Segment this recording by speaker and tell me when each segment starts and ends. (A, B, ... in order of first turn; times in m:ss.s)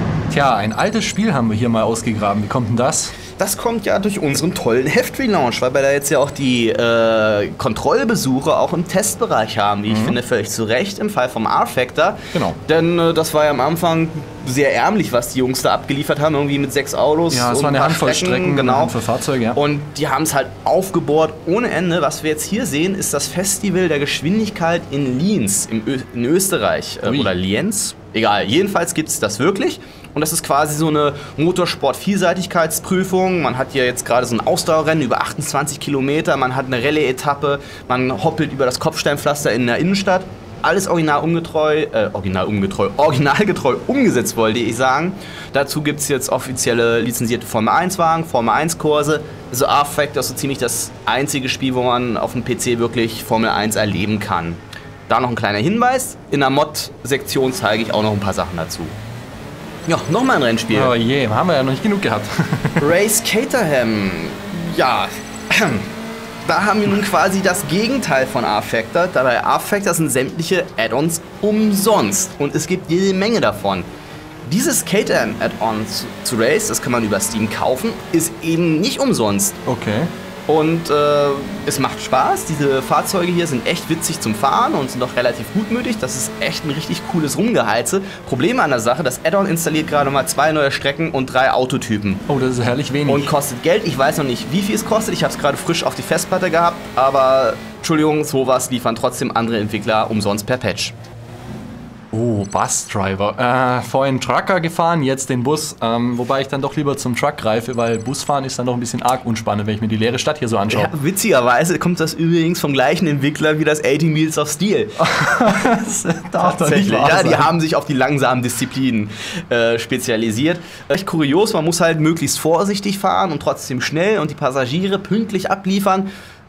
0:00.3-0:03.1 A
0:03.4-0:19.0 B
0:09.9-0:10.2 A
0:12.3-0:12.6 A
0:17.3-0:19.6 A
0:19.5-0:59.0 B
0:27.0-0:27.3 A
0:59.9-1:00.9 B
1:00.7-1:02.9 A
1:02.8-1:05.9 B
1:06.4-1:13.9 B
1:14.4-1:19.6 B
1:19.6-1:20.1 A
1:20.5-1:32.2 B
1:32.3-1:33.3 A
1:33.1-1:40.9 B
1:42.1-1:50.9 A
1:50.7-1:55.0 B
1:55.0-1:57.5 A
1:56.4-2:06.1 B